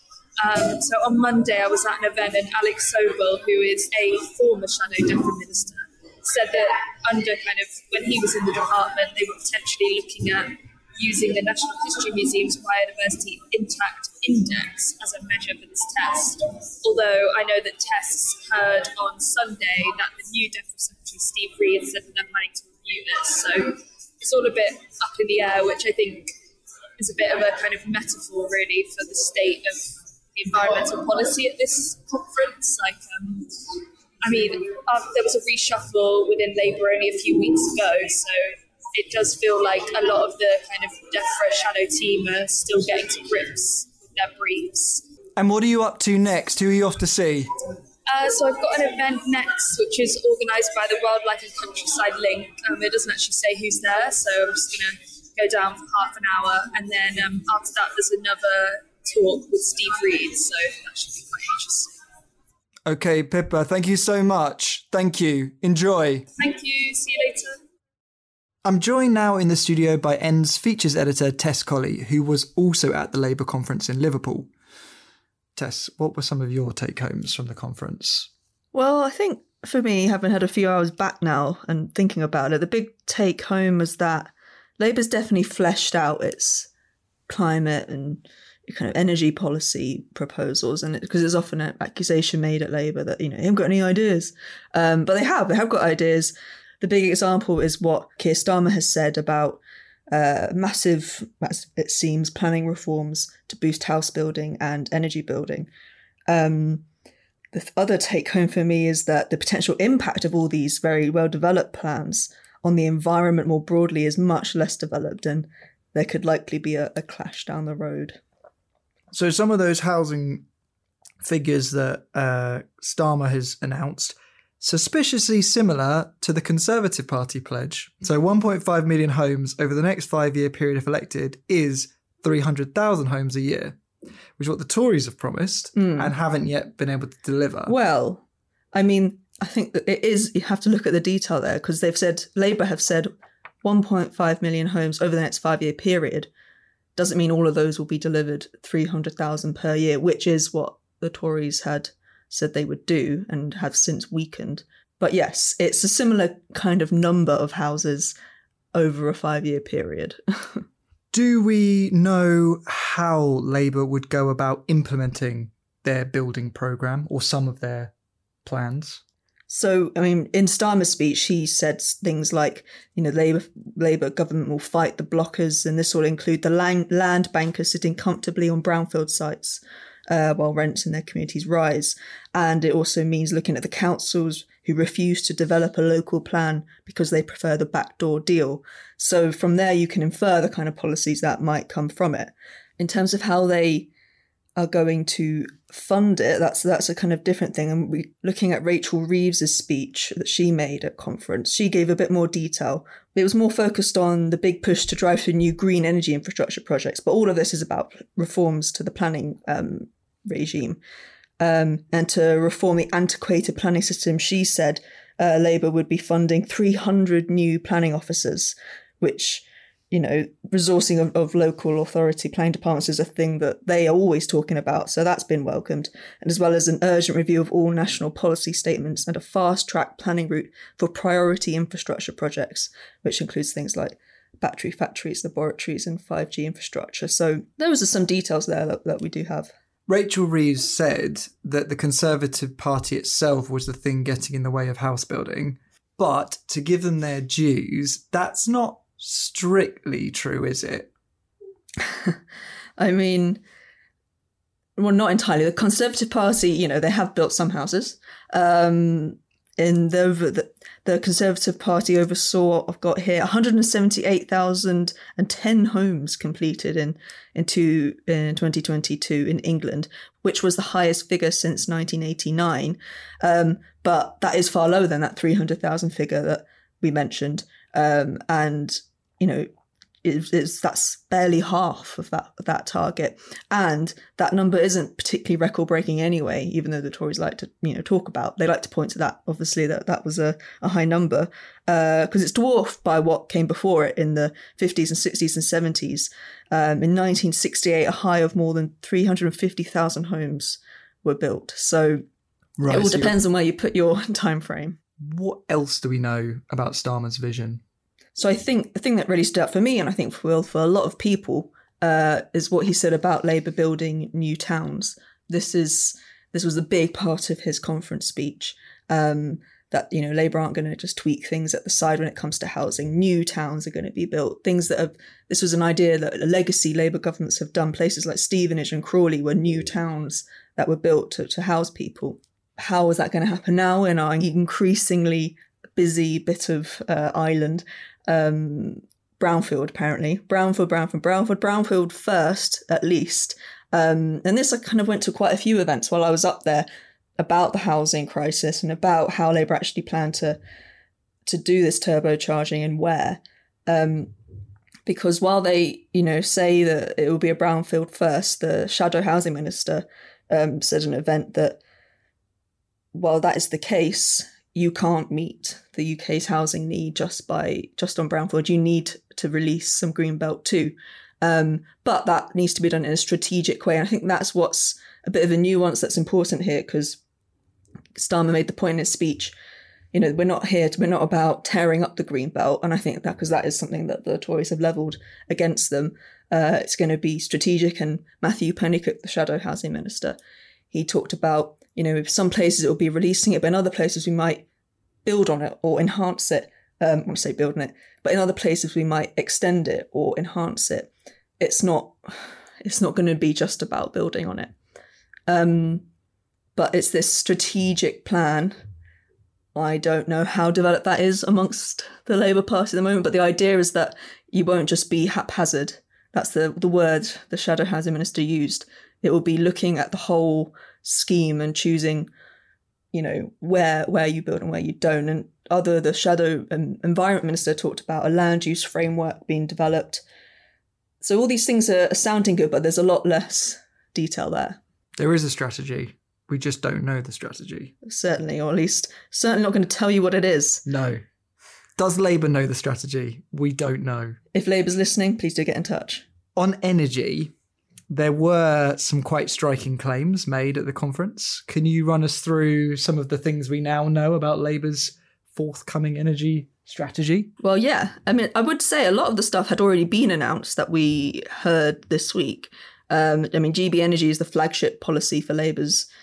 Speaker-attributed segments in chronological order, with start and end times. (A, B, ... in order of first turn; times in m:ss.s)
0:00.4-0:26.3 A
0:27.0-0:33.5 A
0:34.2-0:45.0 A
0:45.4-0:47.5 B
0:48.1-1:02.0 A
1:02.9-1:06.3 B
1:06.4-1:07.6 A
1:08.6-1:14.5 B
1:15.6-1:18.3 B
1:18.7-1:26.7 C
1:27.3-1:45.7 C
1:46.3-1:46.8 C
1:47.5-1:58.2 C
1:59.1-2:00.4 B
2:01.2-2:13.8 B
2:14.4-2:17.8 B
2:15.8-2:16.1 C
2:17.7-2:23.1 C
2:23.6-2:26.3 C
2:27.0-2:38.2 C
2:38.7-2:40.6 C
2:41.1-2:47.9 B
2:48.4-2:49.0 B
2:49.5-3:13.9 C
3:14.6-3:30.8 C
3:31.4-3:59.5 C
3:59.9-4:10.9 B
4:11.8-4:12.2 C
4:12.8-4:13.4 C
4:14.8-4:39.5 C
4:40.0-5:02.0 C
5:02.6-5:03.2 B
5:02.7-5:04.8 C
5:05.0-5:07.6 B
5:08.2-5:46.7 C
5:47.2-5:50.4 C
5:51.3-5:54.1 C
5:54.9-6:01.6 C
6:02.9-6:17.0 C
6:18.0-6:19.3 C
6:19.9-6:30.2 C
6:30.7-6:34.4 C
6:35.0-6:44.5 C
6:45.3-6:45.8 C
6:46.6-6:48.6 C
6:49.6-7:02.1 C
7:02.9-7:10.0 C
7:11.0-7:14.6 C
7:15.0-7:17.7 B
7:17.8-7:20.6 C
7:20.6-7:21.0 B
7:21.8-7:24.2 B
7:24.3-7:26.0 C
7:26.4-7:27.3 B
7:27.9-7:37.3 B
7:37.4-7:45.9 C